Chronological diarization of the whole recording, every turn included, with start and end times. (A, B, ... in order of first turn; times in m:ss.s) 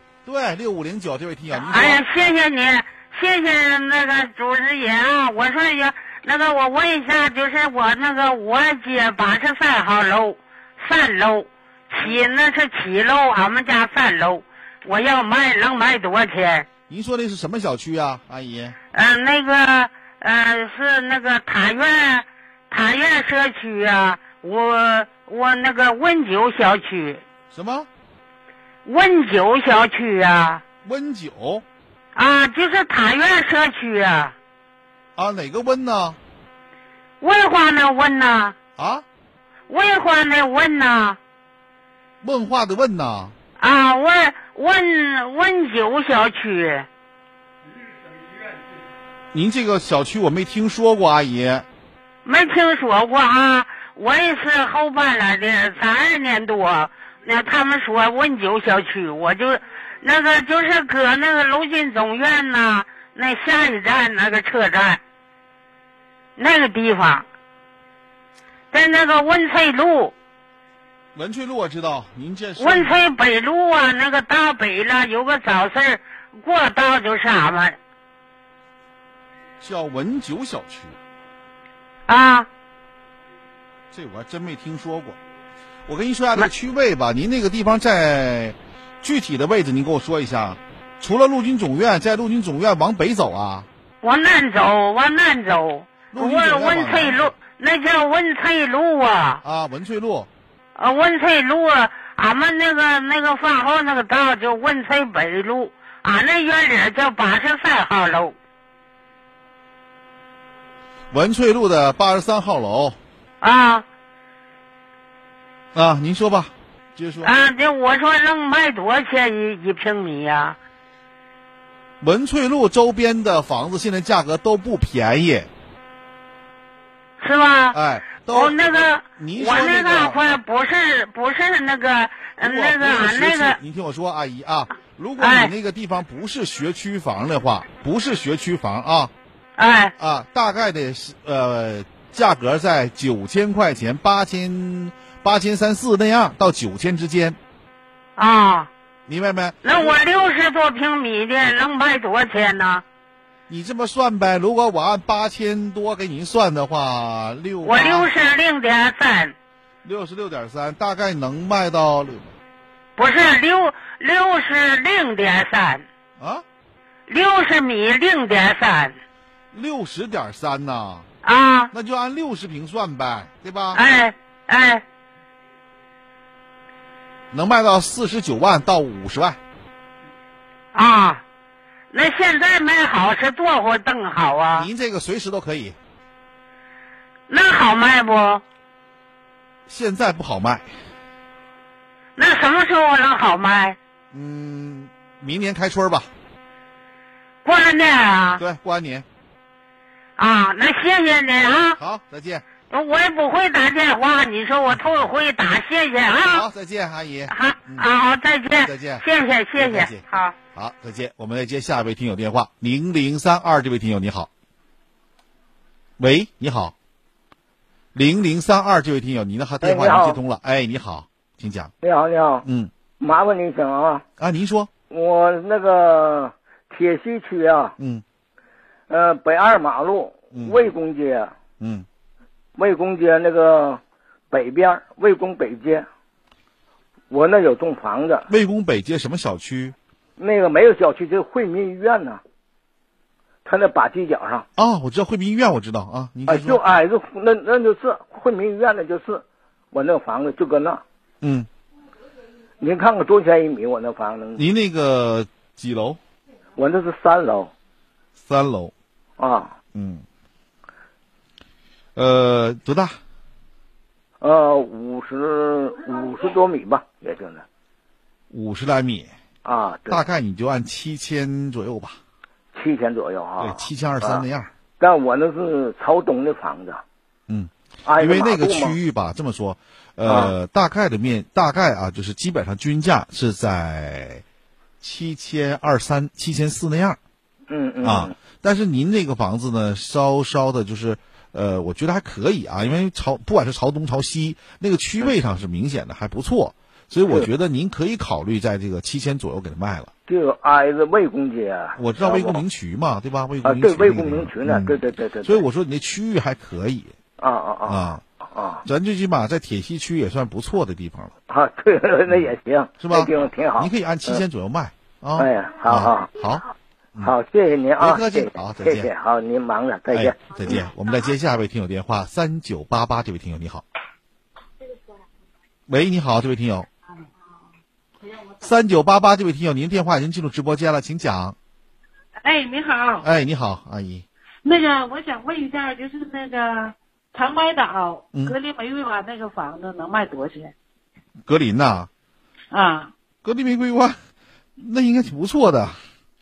0:00.2-0:02.0 A
0:01.6-0:16.7 B
0:16.9-0:18.8 A
0:18.9-0:27.2 B
0:27.5-0:27.9 A
0:28.8-0:30.6 B
0:30.8-0:31.6 A
0:32.2-0:34.4 B
0:35.2-0:36.2 A
0:37.2-0:38.6 B
0:38.8-0:39.0 A
0:39.7-0:41.2 B
0:42.2-0:43.4 A
0:43.6-0:46.9 B
0:49.3-0:51.7 A
0:52.2-1:05.0 B
1:06.4-1:07.3 B
1:08.7-1:10.1 B
1:11.2-1:13.0 A
1:12.6-1:17.8 B
1:19.6-1:21.0 A
1:22.1-1:22.5 B
1:23.9-1:25.2 A
1:25.9-1:33.7 A
1:34.0-1:39.4 B
1:36.1-1:37.4 A
1:39.4-1:40.3 A
1:40.8-1:48.4 B
1:51.1-1:53.0 A
1:53.4-1:53.8 B
1:55.7-1:57.3 A
1:57.2-2:00.6 B
2:02.0-2:05.5 A
2:07.2-2:07.8 B
2:07.7-2:10.3 A
2:08.3-2:13.6 B
2:12.4-2:19.1 A
2:15.2-2:15.5 B
2:19.6-2:19.9 B
2:20.0-2:27.4 A
2:28.2-2:28.7 B
2:29.1-2:30.0 A
2:29.6-2:32.8 B
2:33.5-2:38.4 A
2:37.6-2:39.4 B
2:39.8-2:42.4 A
2:43.0-2:45.8 B
2:46.2-2:46.4 A
2:47.1-2:49.0 B
2:49.5-2:51.1 A
2:51.2-2:51.7 B
2:51.7-2:53.8 A
2:53.7-2:54.8 B
2:57.3-2:59.4 A
3:00.7-3:01.2 B
3:01.9-3:04.7 B
3:04.5-3:05.8 A
3:07.3-3:08.4 B
3:09.7-3:10.7 A
3:12.2-3:13.8 B
3:14.1-3:16.1 A
3:17.4-3:18.4 B
3:18.4-3:19.1 A
3:20.2-3:21.8 B
3:21.8-3:22.4 A
3:22.7-3:26.5 B
3:26.3-3:27.9 A
3:27.3-3:30.4 B
3:28.6-3:34.3 A
3:36.0-3:36.8 A
3:37.9-3:41.7 A
3:39.6-3:40.2 C
3:41.8-3:42.4 C
3:42.4-3:42.7 A
3:43.0-3:44.0 C
3:44.2-3:44.7 A
3:44.9-3:47.7 C
3:47.8-3:48.0 A
3:48.9-3:51.4 C
3:50.3-3:50.7 A
3:51.6-3:51.9 A
3:52.6-3:53.8 C
3:54.3-3:55.9 C
3:57.1-3:58.3 C
3:58.3-3:59.8 A
4:00.2-4:02.2 C
4:03.4-4:04.4 C
4:04.6-4:06.6 A
4:06.3-4:10.8 C
4:11.2-4:11.5 A
4:12.6-4:14.4 C
4:14.4-4:16.0 A
4:16.6-4:17.5 C
4:18.2-4:18.7 A
4:19.2-4:19.5 C
4:19.7-4:20.0 A
4:22.0-4:23.0 A
4:24.2-4:27.4 C
4:28.3-4:29.1 A
4:29.4-4:30.0 C
4:29.9-4:32.0 A
4:32.5-4:34.2 C
4:33.4-4:34.5 A
4:34.8-4:36.8 C
4:37.3-4:44.2 A
4:37.8-4:38.8 C
4:40.1-4:40.3 C
4:44.8-4:47.0 A
4:47.5-4:48.2 C
4:47.8-4:59.9 A
5:00.1-5:02.4 C
5:01.8-5:07.0 A
5:03.4-5:05.4 C
5:07.2-5:08.6 C
5:07.6-5:08.0 A
5:08.6-5:11.1 A
5:11.3-5:14.2 C
5:12.1-5:17.1 A
5:15.2-5:16.1 C
5:17.0-5:20.6 C
5:17.8-5:18.9 A
5:19.9-5:23.6 A
5:25.7-5:26.7 A
5:28.0-5:28.5 D
5:28.4-5:31.4 A
5:32.2-5:33.1 D
5:33.0-5:34.0 A
5:34.4-5:40.5 D
5:41.3-5:41.9 A
5:42.5-5:42.9 D
5:43.2-5:44.0 A
5:44.6-5:45.8 A